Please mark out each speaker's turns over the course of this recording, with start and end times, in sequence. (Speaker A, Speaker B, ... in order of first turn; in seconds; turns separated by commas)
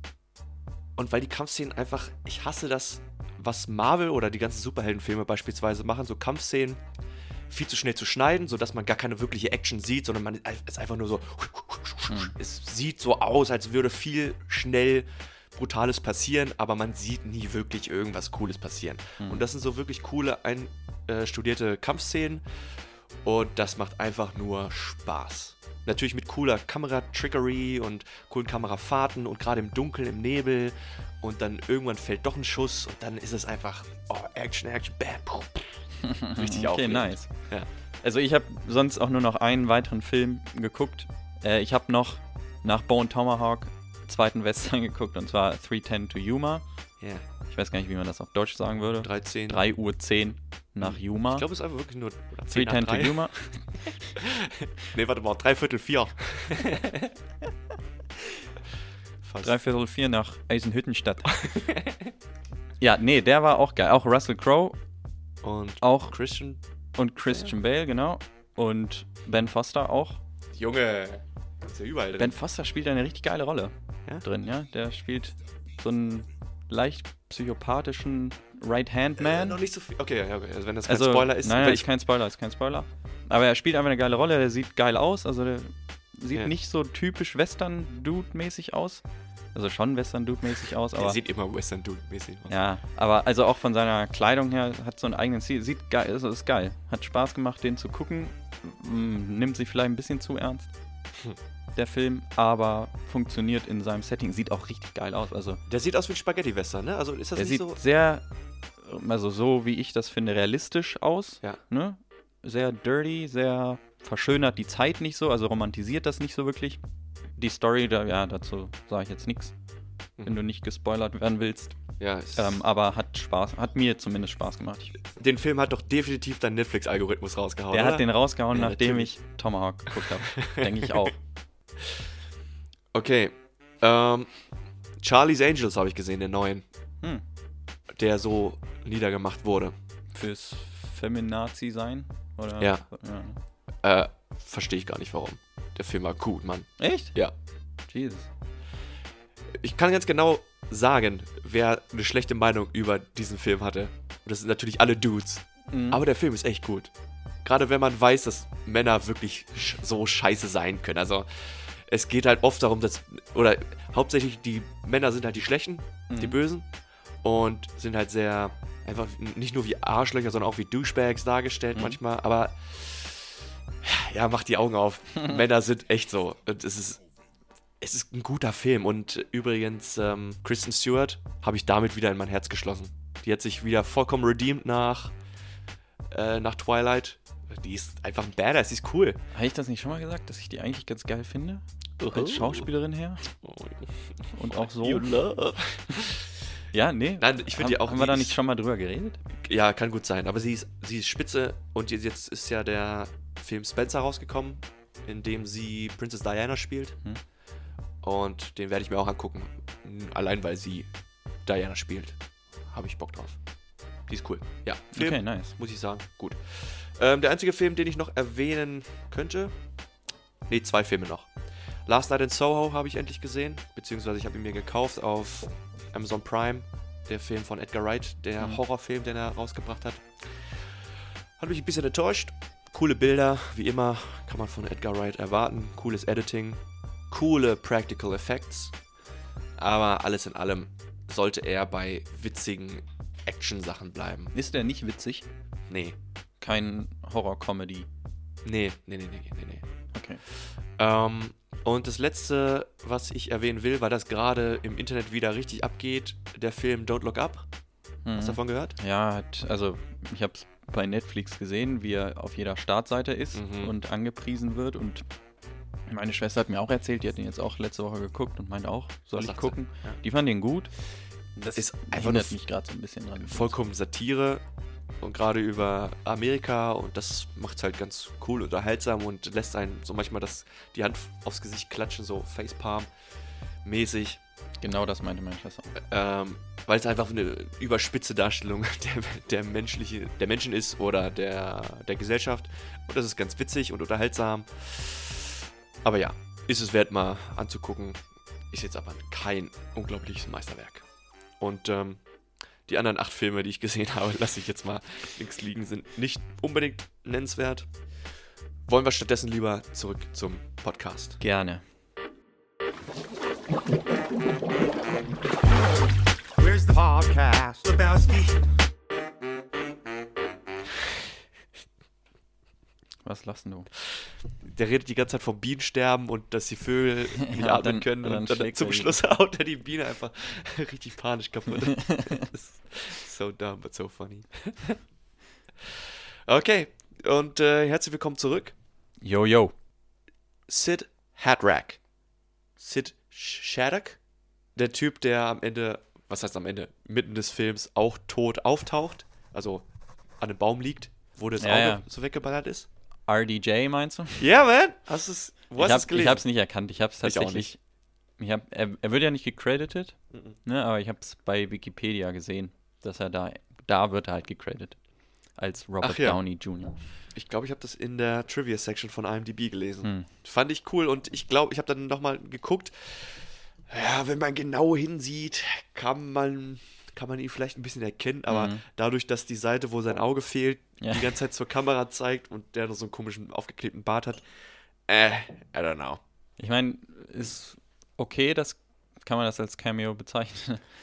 Speaker A: 1.0-6.8, Speaker A: 7.5-22.4, Speaker A: 23.2-37.7, Speaker B: 36.0-46.6, Speaker B: 47.5-51.5, Speaker A: 49.0-49.6, Speaker A: 50.8-53.5, Speaker B: 52.5-53.7, Speaker A: 54.2-57.1, Speaker A: 59.2-59.6, Speaker B: 59.4-61.4, Speaker A: 61.3-62.1, Speaker B: 62.8-64.8, Speaker A: 65.4-66.6, Speaker B: 65.8-66.2, Speaker B: 67.0-70.2, Speaker A: 67.3-67.5, Speaker A: 70.5-72.4, Speaker B: 72.2-79.6, Speaker A: 79.2-81.9, Speaker B: 80.9-91.2, Speaker A: 91.0-92.5, Speaker B: 92.5-100.7, Speaker B: 101.8-105.6, Speaker A: 105.7-107.8, Speaker B: 107.3-108.2, Speaker B: 108.8-116.8, Speaker B: 117.4-119.5, Speaker B: 120.2-124.9, Speaker A: 122.0-122.6, Speaker A: 125.2-129.2, Speaker B: 127.7-131.2, Speaker A: 130.4-131.1, Speaker A: 132.9-134.4, Speaker A: 135.0-136.6, Speaker A: 137.9-139.7, Speaker B: 140.1-143.4, Speaker A: 142.6-142.9, Speaker A: 143.8-147.3, Speaker B: 146.8-147.3, Speaker B: 147.8-148.3, Speaker A: 149.6-156.9, Speaker B: 155.7-156.0, Speaker A: 157.4-166.7, Speaker B: 166.1-166.4, Speaker A: 167.2-177.0, Speaker A: 177.8-185.1, Speaker A: 186.1-189.2, Speaker B: 189.3-193.2, Speaker A: 192.0-192.7, Speaker A: 193.4-196.3, Speaker B: 194.3-195.2, Speaker B: 196.7-199.2, Speaker A: 197.2-198.4, Speaker A: 199.4-207.0, Speaker A: 208.0-210.9, Speaker A: 211.4-212.2, Speaker A: 212.7-213.4, Speaker A: 214.1-219.6, Speaker B: 214.9-215.6, Speaker A: 220.5-221.3, Speaker A: 221.9-230.8, Speaker A: 231.4-238.8, Speaker A: 239.6-244.3, Speaker B: 244.3-245.2, Speaker A: 245.7-246.0, Speaker B: 246.4-247.9, Speaker A: 248.4-249.6, Speaker B: 249.9-250.2, Speaker A: 250.4-257.5, Speaker B: 258.1-265.0, Speaker A: 258.2-258.8, Speaker A: 263.3-263.7, Speaker B: 265.9-270.8, Speaker A: 269.2-270.0, Speaker B: 271.4-273.6, Speaker A: 271.5-272.4, Speaker A: 273.2-274.4, Speaker A: 275.0-282.9, Speaker A: 283.6-284.2, Speaker B: 284.6-285.7, Speaker A: 285.9-295.3, Speaker A: 295.8-300.9, Speaker A: 301.4-302.1, Speaker A: 302.6-307.7, Speaker A: 308.7-311.2, Speaker B: 311.2-311.6, Speaker C: 316.4-318.4, Speaker B: 323.0-323.7, Speaker A: 324.4-334.8, Speaker B: 327.3-329.0, Speaker A: 336.3-338.5, Speaker B: 339.0-339.6, Speaker A: 340.5-341.8, Speaker A: 342.6-344.0, Speaker A: 344.6-349.7, Speaker A: 350.2-352.7, Speaker B: 351.4-351.9, Speaker B: 353.1-354.3, Speaker A: 354.2-356.2, Speaker B: 355.6-357.6, Speaker A: 357.0-357.5, Speaker B: 358.2-364.8, Speaker B: 365.3-366.8, Speaker A: 365.8-366.2, Speaker A: 367.1-384.2, Speaker B: 369.8-370.1, Speaker B: 378.3-378.6, Speaker B: 380.8-381.1, Speaker A: 384.9-386.0, Speaker B: 386.4-390.7